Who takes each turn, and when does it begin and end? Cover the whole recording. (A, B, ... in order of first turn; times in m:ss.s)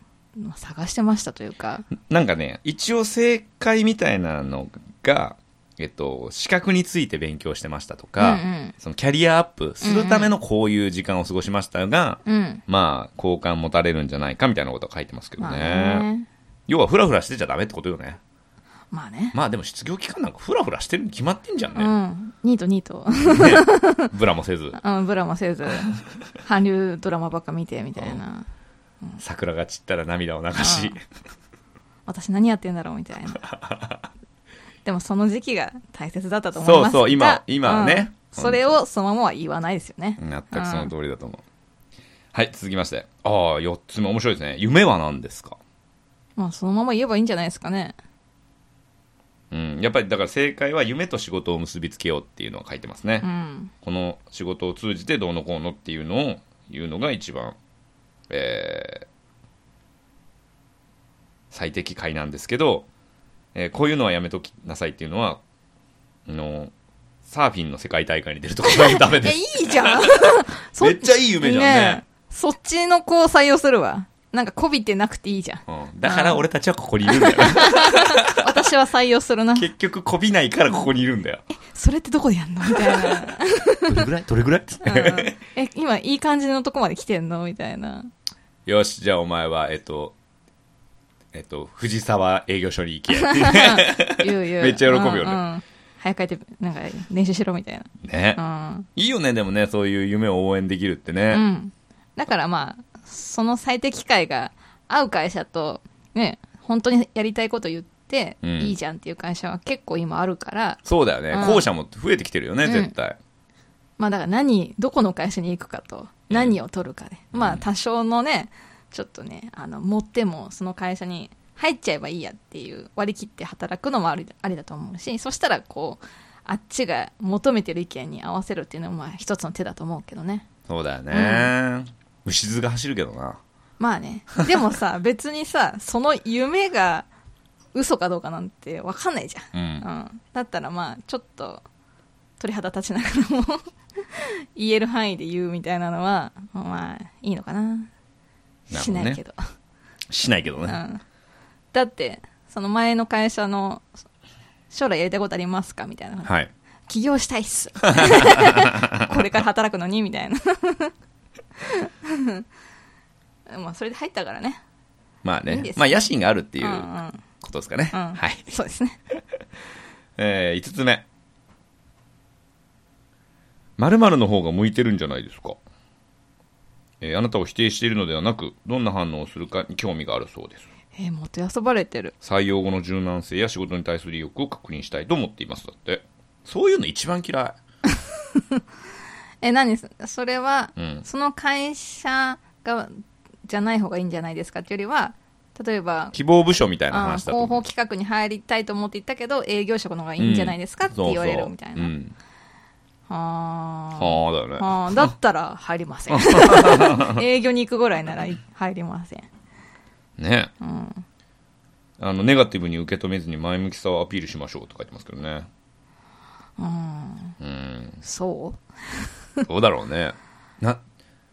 0:00.4-0:01.9 A
0:02.0-0:16.1 B
0:08.2-0:08.8 A
0:09.8-0:10.3 A
0:12.2-0:12.6 A
0:15.4-0:16.3 A
0:16.7-0:18.2 B
0:18.9-0:19.4 A
0:19.3-0:21.9 B
0:21.8-0:24.1 A
0:23.2-0:24.8 B
0:24.8-0:28.5 A
0:29.2-0:31.0 B
0:30.6-0:31.0 A
0:32.1-0:33.4 A
0:33.4-0:34.0 B
0:34.8-0:40.9 A
0:36.6-0:38.8 B
0:40.2-0:41.4 B
0:42.3-0:45.6 B
0:46.4-0:48.0 A
0:49.5-0:53.3 B
0:53.2-0:53.7 A
0:53.8-0:57.6 B
0:58.3-0:59.1 B
1:01.5-1:02.9 B
1:03.6-1:05.4 B
1:06.3-1:06.7 B
1:07.3-1:12.0 B
1:08.7-1:16.4 A
1:15.7-1:18.5 B
1:17.1-1:19.7 A
1:19.6-1:21.4 B
1:21.5-1:24.1 A
1:22.7-1:23.3 B
1:23.8-1:25.4 B
1:24.8-1:28.1 A
1:28.7-1:30.2 B
1:31.3-1:35.4 B
1:33.2-1:38.9 A
1:38.0-1:38.4 B
1:39.0-1:41.4 B
1:41.3-1:50.8 A
1:48.4-1:48.8 B
1:50.8-1:53.2 B
1:51.3-1:51.7 A
1:52.6-1:52.9 A
1:54.0-2:10.5 A
1:56.3-1:56.6 B
1:57.3-1:57.6 B
2:10.7-2:13.4 B
2:11.1-2:11.5 A
2:13.8-2:17.1 A
2:17.7-2:21.6 A
2:19.5-2:19.9 B
2:22.4-2:27.9 A
2:28.7-2:29.2 B
2:28.7-2:29.4 A
2:30.1-2:30.8 B
2:30.6-2:31.0 A
2:31.7-2:33.9 A
2:34.7-2:36.3 A
2:36.2-2:36.5 B
2:36.9-2:40.9 A
2:37.9-2:39.1 B
2:41.6-2:42.5 A
2:43.5-2:44.6 A
2:45.2-2:46.9 B
2:45.5-2:46.0 A
2:46.6-2:47.2 A
2:47.4-2:48.5 B
2:47.9-2:49.0 A
2:50.2-2:51.1 B
2:53.8-2:55.6 B
2:57.0-3:00.7 B
3:01.0-3:02.1 A
3:02.2-3:07.6 B
3:08.3-3:08.6 A
3:09.4-3:16.1 A
3:10.8-3:11.1 B
3:16.1-3:17.6 B
3:16.9-3:21.9 A
3:20.2-3:22.1 B
3:23.1-3:29.3 A
3:24.0-3:25.1 B
3:26.1-3:27.2 B
3:30.2-3:30.5 B
3:30.6-3:31.0 A
3:32.0-3:35.5 B
3:36.6-3:37.4 A
3:37.4-3:38.0 B
3:38.0-3:39.1 A
3:39.4-3:40.8 B